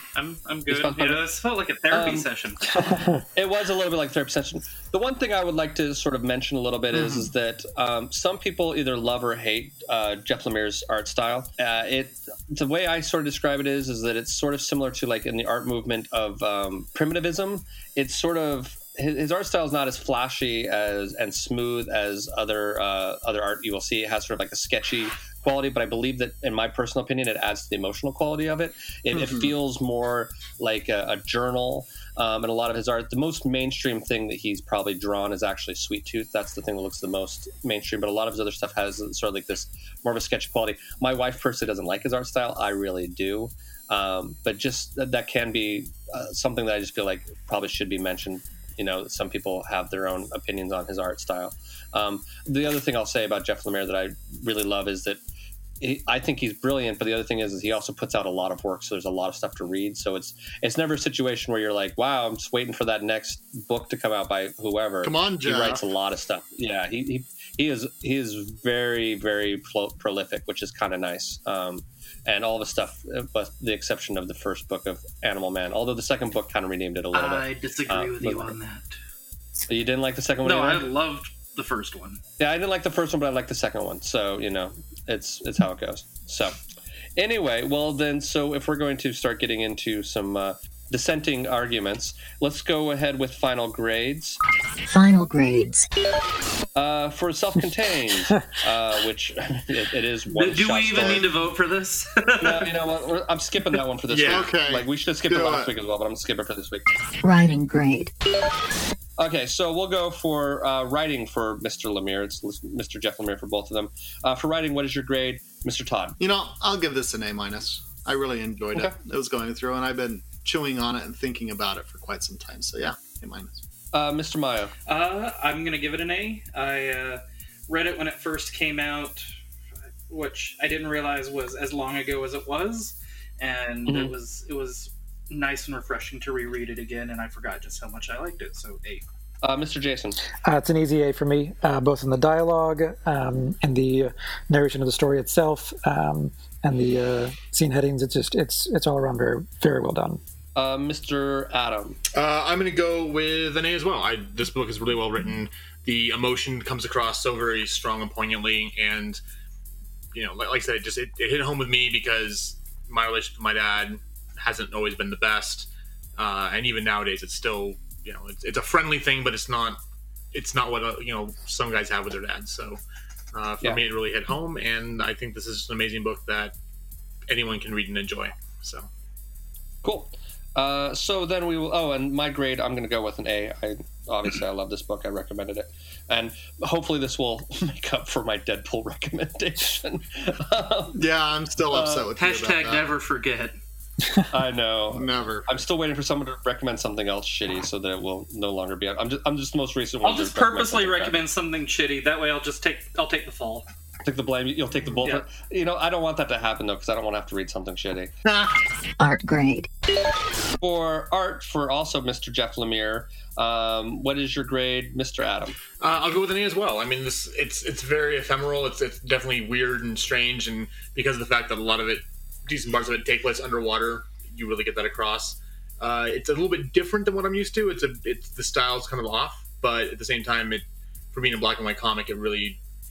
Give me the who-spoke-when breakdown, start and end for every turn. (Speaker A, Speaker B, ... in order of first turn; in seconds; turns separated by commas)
Speaker A: 0.1-3.2, Speaker B: 0.7-1.2, Speaker B: 1.9-2.3, Speaker B: 3.3-55.2, Speaker C: 6.9-7.3, Speaker C: 29.1-29.5, Speaker B: 55.8-78.6, Speaker C: 65.0-65.8, Speaker A: 77.1-79.0, Speaker B: 79.7-80.9, Speaker A: 80.4-82.2, Speaker B: 82.4-86.6, Speaker B: 87.2-94.4, Speaker D: 94.8-95.9, Speaker B: 96.8-101.3, Speaker A: 100.3-102.7, Speaker B: 102.4-106.8, Speaker E: 104.1-104.5, Speaker C: 104.2-105.7, Speaker D: 107.2-108.1, Speaker B: 109.2-116.2, Speaker C: 116.2-123.6, Speaker B: 123.9-124.7, Speaker A: 124.9-129.3, Speaker A: 130.1-139.0, Speaker B: 133.8-134.1, Speaker B: 139.4-140.2, Speaker F: 140.4-150.2, Speaker B: 150.6-152.0, Speaker E: 152.1-159.2, Speaker E: 160.1-169.8, Speaker E: 170.3-172.8, Speaker E: 173.3-176.5, Speaker E: 177.3-178.9, Speaker B: 179.8-191.0, Speaker C: 190.9-192.9, Speaker B: 191.7-192.1, Speaker A: 192.2-193.6, Speaker B: 194.3-201.2, Speaker C: 194.9-195.5, Speaker A: 200.0-203.7, Speaker B: 204.0-208.1, Speaker A: 205.0-205.2, Speaker C: 208.2-208.5, Speaker D: 209.0-209.7, Speaker B: 210.6-215.6, Speaker E: 215.8-232.6